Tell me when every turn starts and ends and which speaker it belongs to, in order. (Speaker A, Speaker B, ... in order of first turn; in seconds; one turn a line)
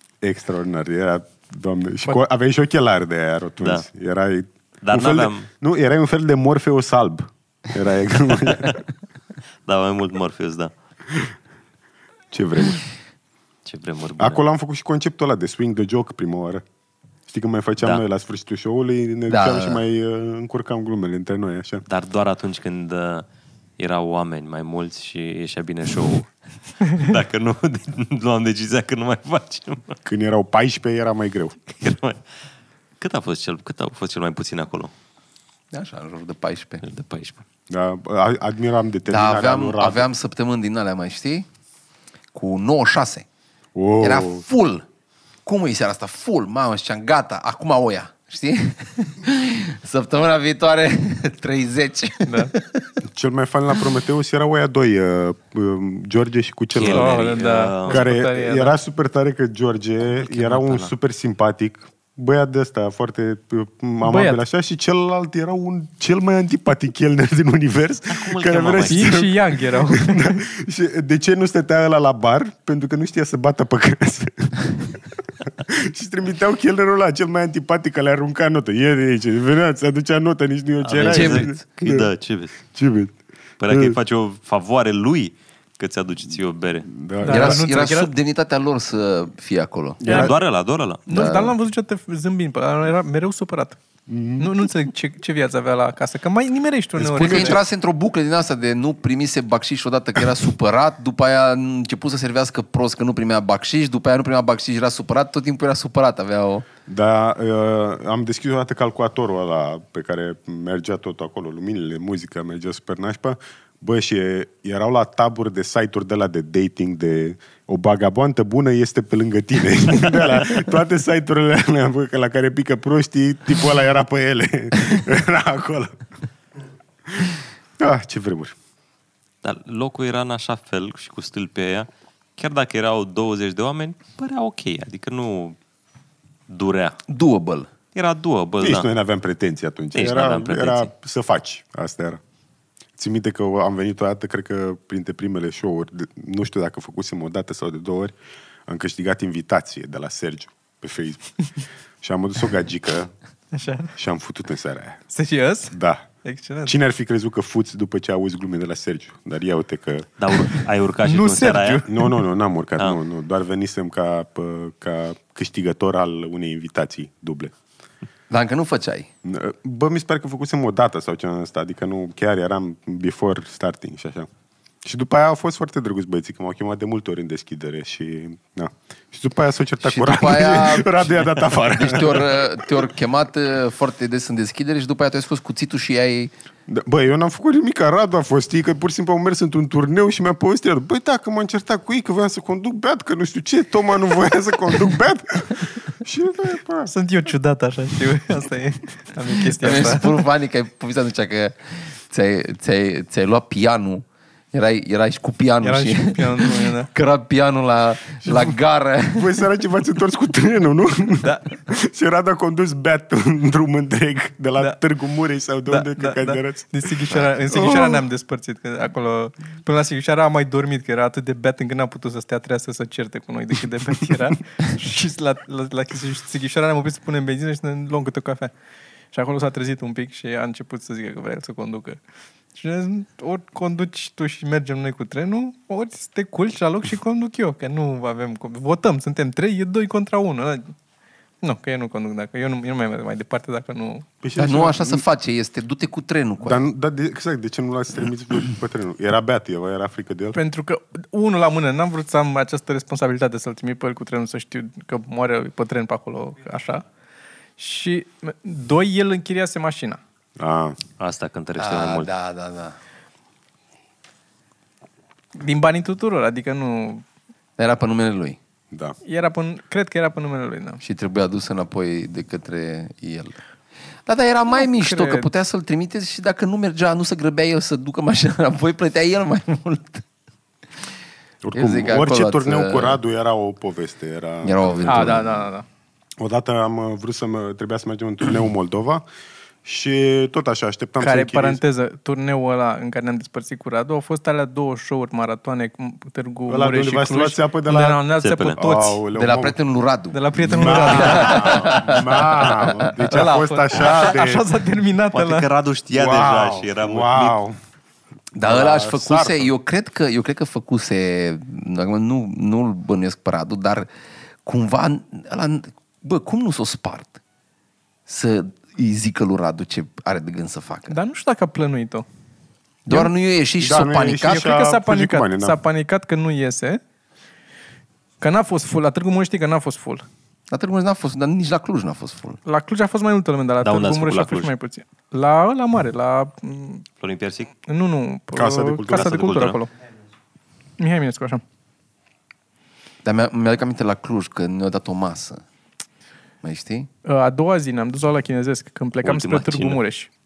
Speaker A: 0.2-8.8
Speaker B: 4.8-5.5
Speaker B: 9.7-10.7
Speaker A: 12.3-12.8
Speaker B: 13.7-14.4
Speaker A: 14.2-16.6
Speaker A: 17.3-21.8
Speaker C: 19.3-19.8
Speaker B: 21.9-23.2
Speaker B: 23.8-26.3
Speaker B: 26.8-30.0
Speaker A: 30.0-31.7
Speaker B: 31.8-32.2
Speaker B: 33.0-34.9
Speaker C: 35.7-36.8
Speaker B: 36.8-37.4
Speaker A: 37.7-40.0
Speaker C: 39.1-41.5
Speaker C: 42.3-43.2
Speaker A: 43.7-44.4
Speaker C: 44.0-44.8
Speaker C: 45.4-52.9
Speaker D: 52.3-52.5
Speaker A: 53.0-57.3
Speaker B: 56.7-58.0
Speaker D: 56.9-58.7
Speaker A: 57.9-82.1
Speaker B: 60.2-60.9
Speaker D: 64.0-64.4
Speaker B: 68.1-69.2
Speaker D: 68.9-70.4
Speaker B: 80.8-82.5
Speaker C: 80.9-81.6
Speaker A: 82.7-83.2
Speaker B: 83.6-86.9
Speaker A: 83.7-84.0
Speaker A: 86.8-87.6
Speaker D: 87.2-88.1
Speaker C: 87.2-90.0
Speaker A: 90.0-90.3
Speaker B: 90.0-91.0
Speaker D: 90.1-90.3
Speaker D: 91.1-93.8
Speaker C: 91.1-91.5
Speaker A: 94.1-94.6
Speaker D: 94.4-97.6
Speaker A: 97.0-97.6
Speaker C: 97.2-106.7
Speaker A: 106.9-125.9
Speaker A: 127.1-128.5
Speaker B: 129.4-135.6
Speaker B: 136.5-137.0
Speaker C: 137.1-137.7
Speaker B: 137.9-138.9
Speaker A: 138.6-142.2
Speaker B: 139.9-140.9
Speaker A: 143.0-148.1
Speaker A: 148.7-151.3
Speaker A: 152.0-153.1
Speaker D: 153.5-153.9
Speaker A: 154.0-155.0
Speaker D: 155.1-156.7
Speaker A: 155.7-156.1
Speaker A: 156.6-160.1
Speaker B: 160.2-161.9
Speaker D: 161.0-162.1
Speaker A: 161.8-167.5
Speaker C: 168.3-169.1
Speaker A: 169.2-174.3
Speaker A: 174.8-182.7
Speaker C: 179.8-186.3
Speaker A: 186.7-196.9
Speaker D: 196.9-200.2
Speaker C: 199.6-209.3
Speaker D: 205.6-206.9
Speaker A: 208.2-208.6
Speaker A: 209.1-218.1
Speaker D: 215.7-228.5
Speaker D: 229.1-232.0
Speaker D: 232.5-240.7
Speaker D: 241.4-244.1
Speaker A: 244.2-245.0
Speaker C: 244.4-246.6
Speaker A: 246.4-250.4
Speaker D: 250.3-256.8
Speaker D: 257.6-260.0
Speaker A: 260.4-260.8
Speaker B: 261.0-262.1
Speaker C: 261.6-262.8
Speaker D: 265.4-267.0
Speaker C: 267.6-268.4
Speaker A: 268.7-268.9
Speaker D: 269.0-270.8
Speaker C: 270.8-273.4
Speaker C: 274.1-280.0
Speaker D: 274.5-275.3
Speaker A: 281.4-285.2
Speaker C: 281.5-283.0
Speaker C: 284.4-285.5
Speaker D: 284.8-285.6
Speaker A: 286.2-289.0
Speaker A: 289.6-291.6
Speaker D: 291.0-299.0
Speaker A: 296.5-298.0
Speaker B: 298.2-298.6
Speaker A: 298.6-299.5
Speaker C: 299.1-302.9
Speaker D: 300.1-305.5
Speaker A: 300.5-304.4
Speaker B: 305.1-307.4
Speaker A: 305.9-307.6
Speaker C: 308.3-313.9
Speaker A: 308.4-309.5
Speaker C: 314.4-317.2
Speaker C: 318.1-321.0
Speaker D: 320.9-322.1
Speaker C: 322.9-324.4
Speaker A: 323.6-325.6
Speaker D: 324.2-326.8
Speaker D: 328.2-330.1
Speaker C: 330.5-332.4
Speaker D: 332.4-336.8
Speaker B: 333.6-334.5
Speaker B: 337.0-337.5
Speaker D: 337.6-339.7
Speaker A: 338.3-339.2
Speaker B: 338.9-339.6
Speaker D: 340.8-341.4
Speaker C: 343.0-345.4
Speaker C: 346.4-346.9
Speaker D: 347.0-350.1
Speaker B: 349.0-349.8